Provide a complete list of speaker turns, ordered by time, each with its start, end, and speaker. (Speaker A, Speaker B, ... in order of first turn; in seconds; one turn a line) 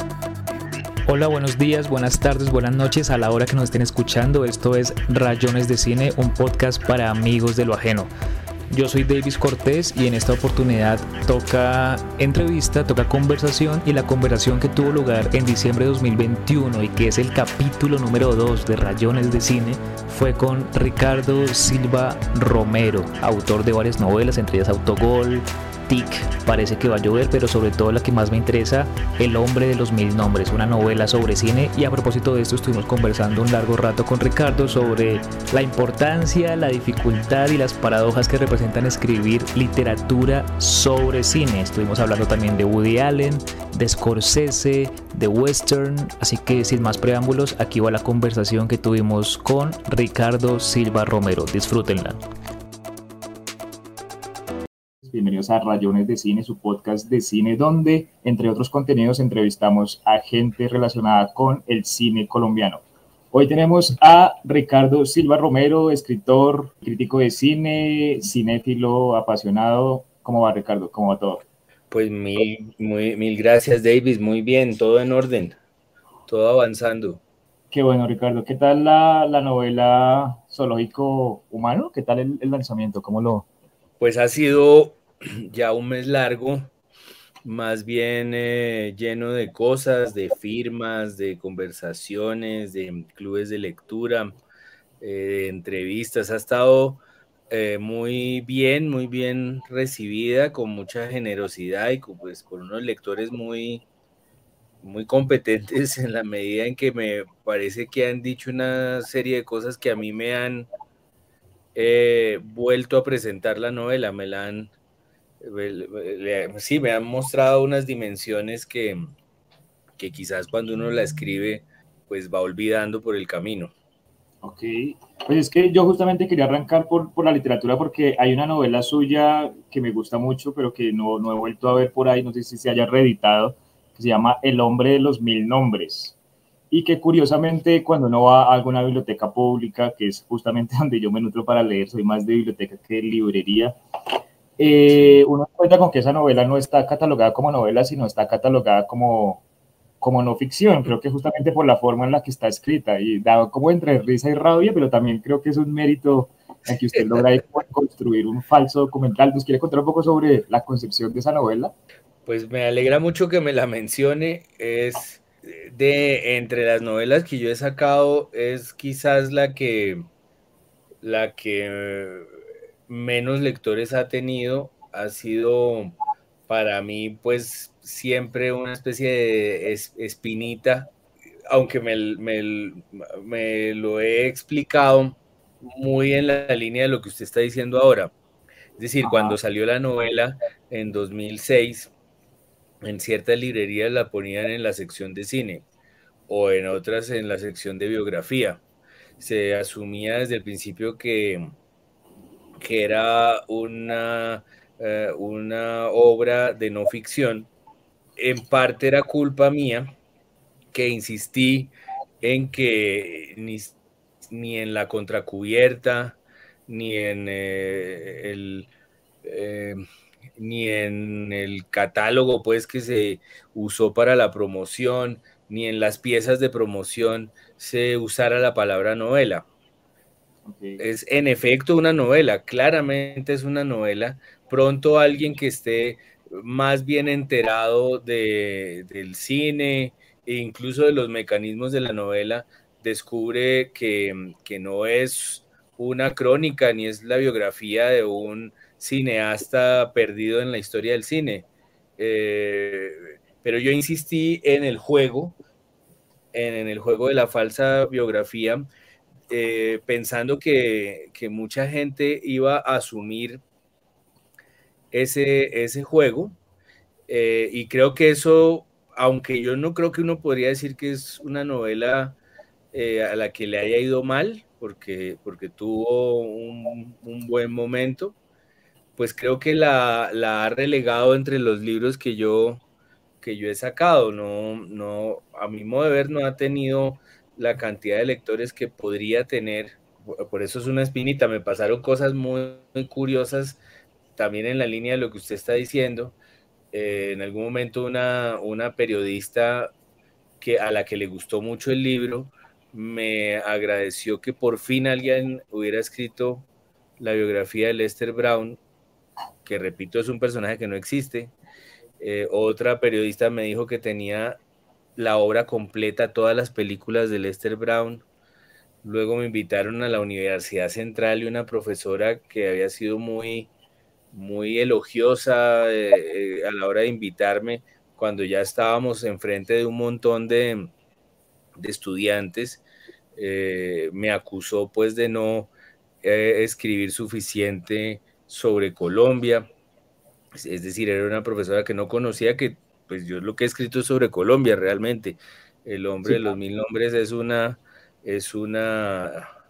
Speaker A: 1.1-8.1
Speaker A: 8.7-52.2
Speaker B: 55.0-71.4
Speaker C: 71.9-75.6
Speaker C: 76.3-77.2
Speaker B: 77.7-83.5
Speaker C: 84.0-86.7
Speaker C: 87.4-94.4
Speaker C: 95.0-103.8
Speaker C: 104.8-110.7
Speaker C: 111.8-114.7
Speaker C: 115.4-119.1
Speaker C: 120.0-123.7
Speaker B: 124.4-136.2
Speaker B: 136.7-143.7
Speaker B: 144.6-149.4
Speaker C: 144.9-145.2
Speaker B: 150.0-161.7
Speaker C: 162.3-170.1
Speaker C: 171.0-172.3
Speaker C: 172.9-176.0
Speaker C: 176.5-180.9
Speaker C: 181.5-188.1
Speaker C: 188.8-191.9
Speaker B: 189.0-189.4
Speaker C: 192.8-195.7
Speaker C: 196.3-198.6
Speaker C: 199.2-201.5
Speaker C: 202.6-207.5
Speaker C: 208.2-209.9
Speaker C: 210.7-211.7
Speaker C: 212.2-213.8
Speaker C: 214.3-218.7
Speaker C: 219.2-219.8
Speaker C: 220.4-229.5
Speaker B: 230.5-230.8
Speaker C: 230.8-255.4
Speaker C: 256.3-258.7
Speaker C: 259.3-263.4
Speaker C: 264.9-266.4
Speaker C: 267.1-272.2
Speaker C: 272.7-278.2
Speaker C: 279.0-282.6
Speaker C: 283.2-293.6
Speaker C: 294.2-296.2
Speaker C: 296.7-299.7
Speaker C: 300.4-306.5
Speaker C: 307.0-308.6
Speaker C: 309.4-311.3
Speaker C: 312.0-314.4
Speaker C: 315.0-318.0
Speaker C: 318.8-323.5
Speaker C: 324.1-330.7
Speaker C: 331.6-332.6
Speaker C: 333.2-335.5
Speaker C: 336.0-339.5
Speaker C: 340.4-349.3